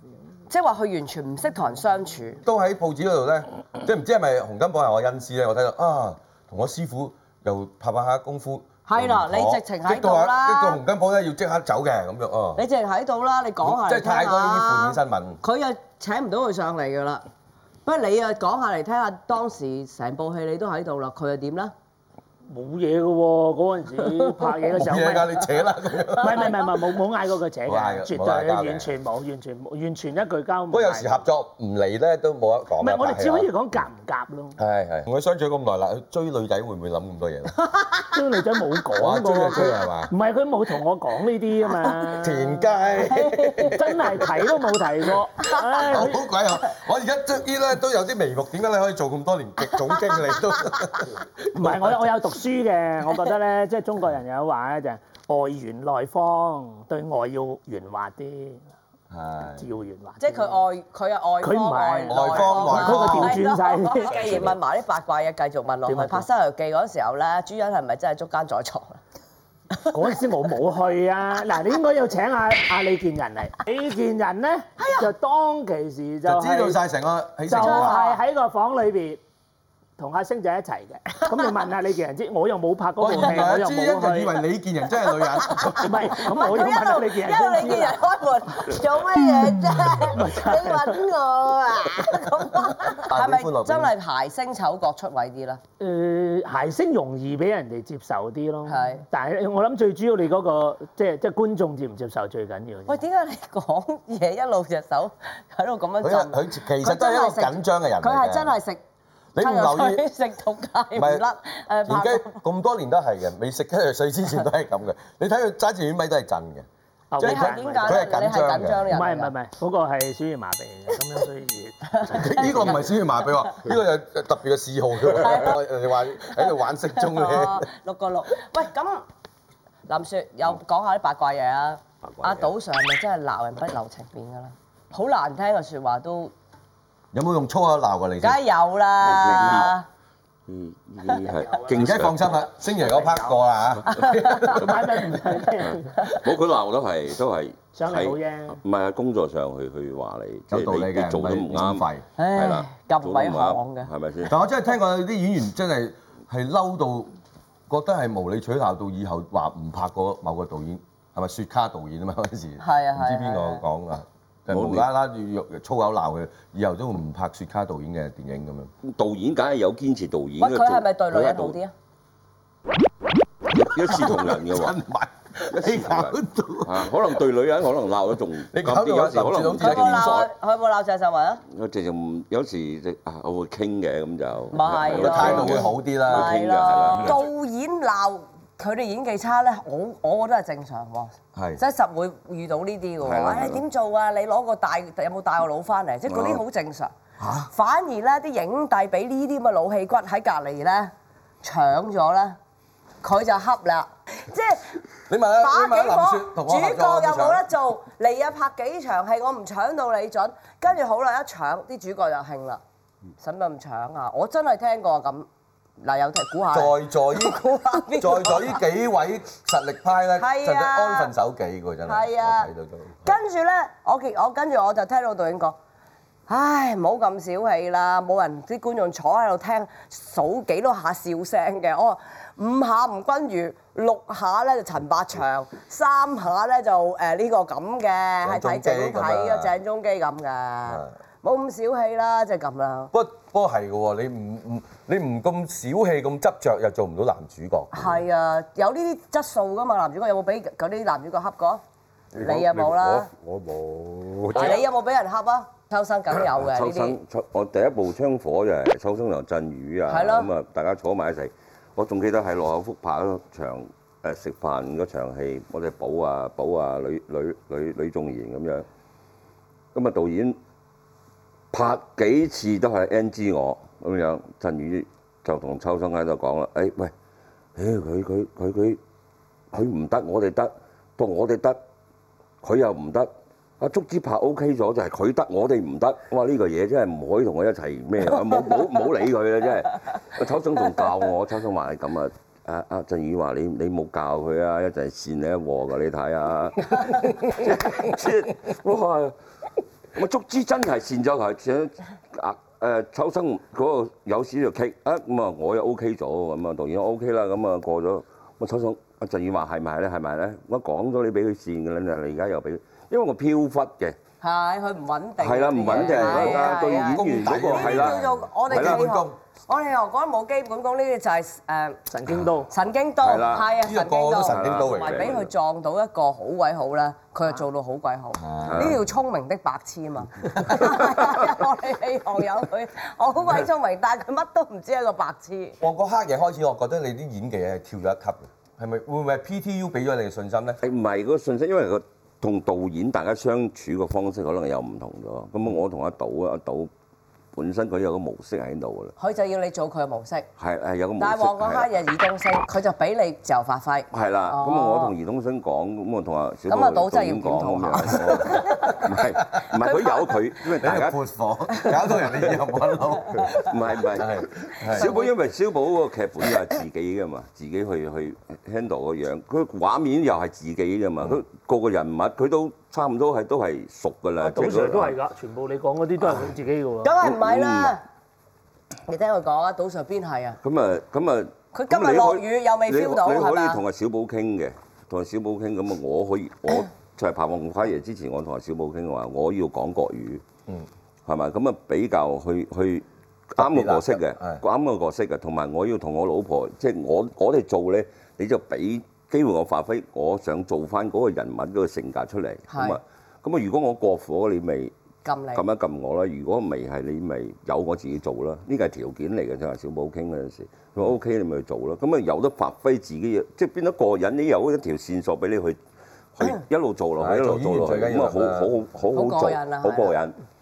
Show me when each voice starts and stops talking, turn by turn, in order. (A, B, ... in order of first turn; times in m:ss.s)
0:00.5-0:02.4 A
0:02.4-0:12.6 B
0:08.9-0:10.8 A
0:12.6-0:17.2 A
0:13.6-0:15.4 B
0:17.8-0:21.7 A
0:22.5-0:25.5 C
0:24.2-0:24.5 A
0:24.8-0:26.6 B
0:26.2-0:31.2 C
0:27.7-0:28.9 B
0:30.7-0:33.5 B
0:32.8-0:34.6 C
0:34.6-0:37.6 B
0:38.1-0:42.6 C
0:39.0-0:40.1 B
0:42.2-0:44.3 B
0:43.0-0:43.8 A
0:43.6-0:46.2 C
0:45.8-0:51.9 B
0:51.5-0:58.7 C
0:59.1-0:59.7 B
0:59.6-1:00.6 C
1:00.2-1:09.0 A
1:01.4-1:04.5 C
1:02.1-1:03.4 B
1:05.9-1:06.3 C
1:09.9-1:16.8 C
1:14.8-1:15.1 A
1:16.3-1:18.0 B
1:17.5-1:19.2 C
1:17.5-1:18.2 A
1:20.0-1:24.4 C
1:23.0-1:26.0 B
1:25.1-1:35.6 A
1:25.8-1:28.0 C
1:30.0-1:31.0 C
1:32.8-1:33.9 B
1:35.8-1:43.0 C
1:38.7-1:39.0 A
1:42.9-1:48.8 A
1:46.0-1:48.6 B
1:49.3-1:50.0 B
1:49.4-1:52.4 A
1:51.0-1:51.2 B
1:51.8-1:58.9 B
1:57.1-1:58.1 C
1:57.2-1:59.3 A
1:58.8-2:02.8 C
2:01.9-2:03.0 A
2:02.1-2:07.7 B
2:05.2-2:05.5 A
2:06.4-2:09.1 A
2:09.9-2:16.3 A
2:17.1-2:18.4 B
2:18.2-2:19.8 A
2:19.0-2:19.8 D
2:20.5-2:22.4 D
2:21.4-2:21.9 C
2:21.7-2:25.1 B
2:22.8-2:23.4 C
2:23.9-2:24.6 A
2:24.3-2:26.0 C
2:25.6-2:34.4 D
2:27.8-2:28.6 C
2:30.5-2:32.0 B
2:32.2-2:33.9 A
2:34.3-2:37.1 B
2:37.7-2:48.7 B
2:42.6-2:43.6 A
2:44.5-2:44.9 D
2:48.8-2:51.6 D
2:50.4-2:51.7 A
2:53.5-2:54.8 D
2:53.8-2:57.0 B
2:55.6-3:00.3 D
2:58.5-3:00.3 B
2:59.6-3:01.4 A
3:01.5-3:07.2 D
3:04.5-3:16.9 A
3:04.9-3:07.3 B
3:11.3-3:11.6 B
3:13.0-3:13.6 D
3:16.1-3:16.4 D
3:17.2-3:17.5 B
3:17.5-3:20.9 A
3:21.4-3:22.4 A
3:23.0-3:24.8 A
3:25.1-3:27.4 B
3:25.4-3:32.6 A
3:33.2-3:35.3 A
3:35.8-3:38.6 A
3:36.5-3:37.4 B
3:38.0-3:43.2 B
3:40.2-3:41.1 A
3:41.9-3:42.5 A
3:43.0-3:45.6 A
3:46.3-4:02.9 A
3:58.2-3:59.5 B
4:00.7-4:00.9 B
4:02.9-4:08.0 B
4:07.7-4:11.6 A
4:12.2-4:14.6 E
4:12.2-4:13.1 A
4:14.3-4:17.0 A
4:16.4-4:28.7 D
4:19.9-4:20.3 A
4:29.7-4:30.4 D
4:31.5-4:36.9 D
4:37.6-4:38.8 D
4:39.5-4:41.6 D
4:42.4-4:59.1 D
4:59.9-5:14.0 D
5:14.2-5:21.8 A
5:15.2-5:18.8 D
5:15.8-5:16.4 C
5:16.1-5:19.2 B
5:21.9-5:22.5 C
5:22.5-5:35.6 A
5:23.0-5:23.5 D
5:23.4-5:25.2 B
5:24.2-5:25.3 D
5:28.2-5:28.8 B
5:28.4-5:28.8 D
5:30.4-5:31.1 B
5:35.6-5:40.6 B
5:40.6-5:46.7 D
5:47.4-5:49.0 D
5:49.0-5:50.3 A
5:50.4-5:51.7 D
5:51.0-5:54.9 A
5:53.9-6:01.0 D
5:56.5-5:58.8 A
5:59.6-6:00.2 A
6:00.6-6:03.4 B
6:03.4-6:15.0 D
6:03.9-6:04.9 B
6:04.7-6:05.1 A
6:14.2-6:17.0 C
6:16.8-6:17.8 A
6:17.0-6:17.8 D
6:18.9-6:20.4 A
6:20.4-6:30.2 D
6:21.5-6:23.6 A
6:31.1-6:44.7 D
6:33.4-6:34.4 B
6:42.5-6:42.8 A
6:45.0-6:45.4 A
6:45.4-6:55.6 D
6:56.2-7:00.2 D
6:57.0-6:58.5 B
6:58.9-7:00.0 A